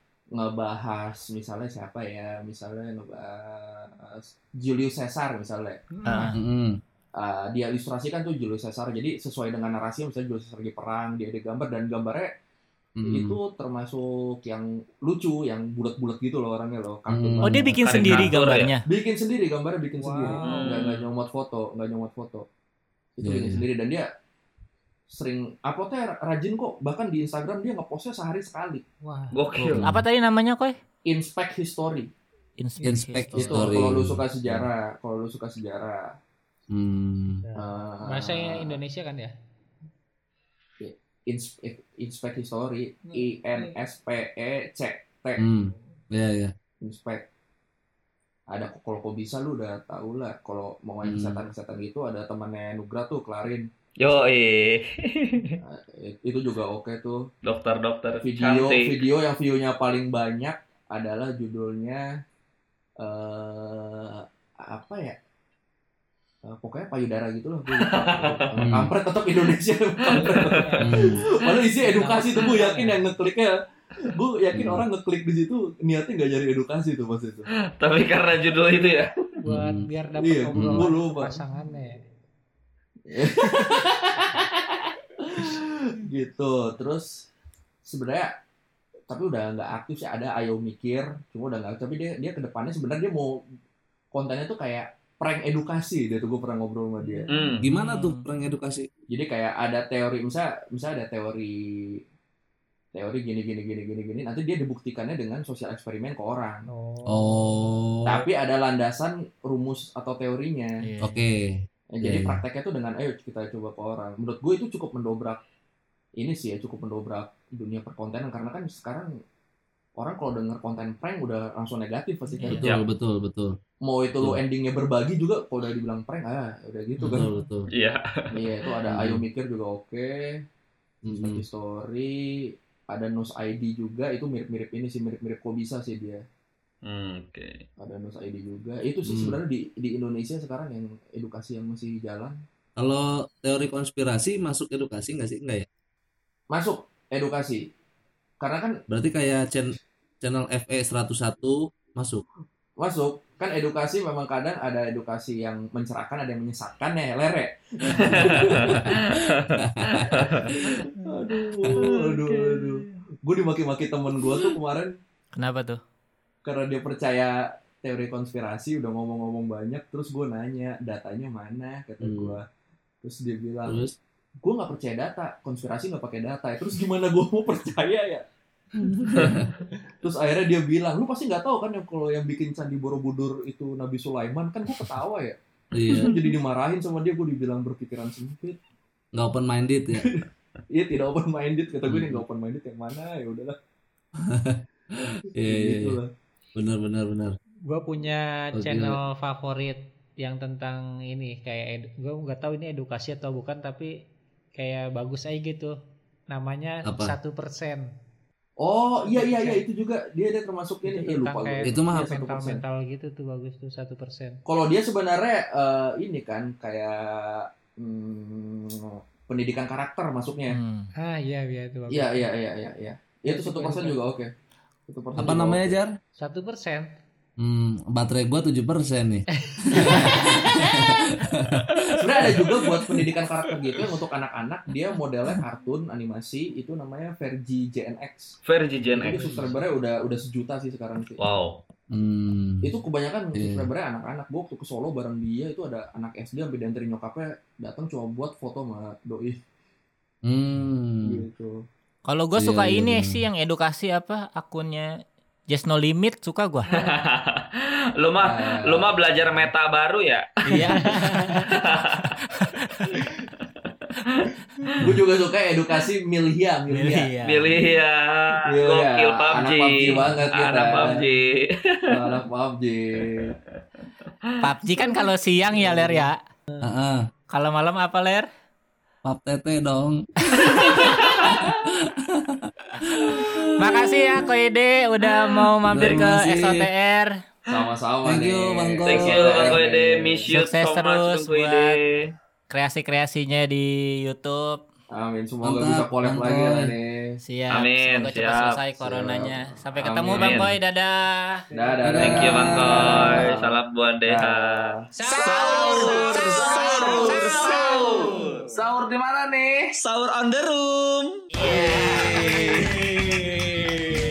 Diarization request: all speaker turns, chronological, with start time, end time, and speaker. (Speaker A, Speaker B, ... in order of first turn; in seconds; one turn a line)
Speaker A: 0.3-5.8
Speaker B: 6.0-6.3
Speaker C: 6.1-6.4
Speaker D: 6.3-6.8
Speaker A: 7.2-12.3
Speaker D: 13.0-13.4
Speaker A: 13.1-17.6
Speaker D: 17.1-18.2
Speaker C: 17.4-18.9
Speaker E: 17.9-18.7
Speaker A: 18.9-22.4
Speaker B: 20.0-20.8
Speaker E: 20.4-21.1
Speaker A: 23.2-24.1
Speaker D: 23.2-23.6
Speaker A: 25.1-28.8
Speaker B: 29.0-29.4
Speaker E: 29.3-29.9
Speaker D: 29.6-30.0
Speaker C: 29.8-30.8
Speaker A: 31.1-32.1
Speaker C: 32.6-33.7
Speaker D: 32.8-34.7
Speaker A: 33.4-36.1
Speaker D: 36.7-37.4
Speaker B: 37.4-39.3
Speaker A: 37.6-38.8
Speaker A: 40.8-45.5
Speaker B: 43.1-43.8
Speaker D: 45.4-46.5
Speaker A: 46.8-47.2
Speaker A: 48.5-53.7
Speaker D: 51.0-51.4
Speaker E: 54.0-55.6
Speaker A: 55.6-57.3
Speaker E: 57.4-59.1
Speaker A: 58.2-62.0
Speaker A: 63.0-65.2
Speaker A: 66.5-77.5
Speaker E: 67.8-68.4
Speaker D: 68.6-68.9
Speaker E: 70.0-70.8
Speaker B: 70.2-73.0
Speaker D: 70.8-71.2
Speaker D: 74.5-74.8
Speaker E: 77.8-79.2
Speaker B: 79.4-82.1
Speaker D: 79.5-79.9
Speaker A: 80.2-81.4
Speaker D: 80.6-80.9
Speaker A: 83.1-87.2
Speaker A: 87.8-88.3
Speaker A: 89.1-93.4
Speaker A: 94.1-97.3
Speaker B: 97.1-97.5
Speaker E: 97.3-97.6
Speaker D: 97.6-98.9
Speaker C: 97.8-98.2
Speaker A: 99.1-102.0
Speaker A: 103.0-106.7
Speaker B: 106.7-107.6
Speaker D: 107.1-108.2
Speaker A: 108.0-110.8
Speaker C: 110.8-111.2
Speaker D: 111.0-112.4
Speaker A: 111.9-115.4
Speaker A: 116.2-119.1
Speaker A: 120.0-122.8
Speaker C: 122.4-122.7
Speaker D: 122.6-123.5
Speaker A: 123.8-127.3
Speaker D: 127.0-127.7
Speaker B: 127.2-127.5
Speaker E: 127.7-128.7
Speaker A: 128.3-130.3
Speaker D: 128.9-129.2
Speaker A: 131.1-136.2
Speaker D: 131.1-131.4
Speaker E: 136.8-137.6
Speaker A: 137.8-142.4
Speaker D: 139.1-139.4
Speaker D: 142.8-145.7
Speaker A: 146.5-147.7
Speaker A: 148.4-148.8
Speaker D: 148.9-152.2
Speaker A: 152.8-158.9
Speaker E: 158.0-160.6
Speaker D: 158.2-160.8
Speaker A: 161.1-164.9
Speaker C: 165.4-165.8
Speaker A: 166.4-172.4
Speaker D: 172.0-172.4
Speaker A: 173.0-173.9
Speaker D: 173.7-173.9
Speaker A: 174.4-178.2
Speaker D: 178.8-179.5
Speaker A: 180.0-185.4
Speaker D: 185.7-186.1
Speaker E: 185.9-186.1
Speaker A: 185.9-188.6
Speaker D: 189.2-190.1
Speaker A: 189.9-193.6
Speaker D: 191.9-192.2
Speaker D: 194.3-196.0
Speaker A: 195.4-196.1
Speaker D: 196.6-197.3
Speaker B: 197.7-203.9
Speaker D: 198.6-199.0
Speaker B: 204.6-205.7
Speaker B: 206.3-207.8
Speaker D: 206.9-207.1
Speaker A: 208.6-212.6
Speaker B: 209.0-209.7
Speaker B: 210.8-214.4
Speaker D: 211.7-212.1
Speaker A: 214.5-220.6
Speaker C: 220.5-220.9
Speaker B: 221.0-222.3
Speaker A: 221.9-224.3
Speaker B: 223.3-224.0
Speaker A: 224.9-225.8
Speaker D: 225.2-225.9
Speaker B: 226.2-227.0
Speaker D: 227.4-233.0
Speaker B: 229.3-231.1
Speaker A: 229.7-230.3
Speaker A: 232.0-238.4
Speaker E: 238.5-239.4
Speaker A: 238.9-241.2
Speaker B: 239.0-239.6
Speaker E: 241.2-241.6
Speaker D: 241.9-242.7
Speaker A: 242.6-249.4
Speaker D: 243.4-243.7
Speaker D: 250.3-251.2
Speaker A: 251.1-251.6
Speaker C: 252.1-254.9
Speaker D: 252.4-253.2
Speaker C: 255.5-256.7
Speaker E: 256.7-257.5
Speaker E: 258.0-260.8
Speaker A: 258.2-259.0
Speaker C: 260.5-261.5
Speaker E: 261.5-262.1
Speaker C: 262.4-262.9
Speaker E: 263.4-264.3
Speaker A: 264.8-267.1
Speaker C: 266.7-267.5
Speaker E: 267.2-272.2
Speaker A: 268.5-271.0
Speaker A: 271.9-273.4
Speaker E: 273.0-274.1
Speaker C: 274.4-276.2
Speaker D: 276.6-277.0
Speaker C: 277.3-278.3
Speaker D: 279.1-283.9
Speaker C: 280.3-281.0
Speaker E: 280.7-281.4
Speaker C: 283.6-287.1
Speaker D: 285.7-286.7
Speaker A: 287.5-290.3
Speaker D: 288.1-289.6
Speaker E: 288.9-292.1
Speaker C: 290.3-291.8
Speaker C: 292.5-294.6
Speaker A: 294.9-297.2
Speaker D: 295.4-296.7
Speaker C: 297.2-301.4
Speaker E: 297.5-298.6
Speaker A: 298.8-300.5
Speaker E: 300.1-300.5
Speaker B: 301.5-301.8
Speaker A: 301.5-304.8
Speaker D: 301.9-303.2
Speaker E: 302.0-308.6
Speaker B: 305.0-305.8
Speaker C: 305.1-307.0
Speaker D: 305.2-309.6
Speaker B: 306.5-306.8
Speaker E: 309.7-312.6
Speaker C: 311.4-311.9
Speaker D: 311.9-312.3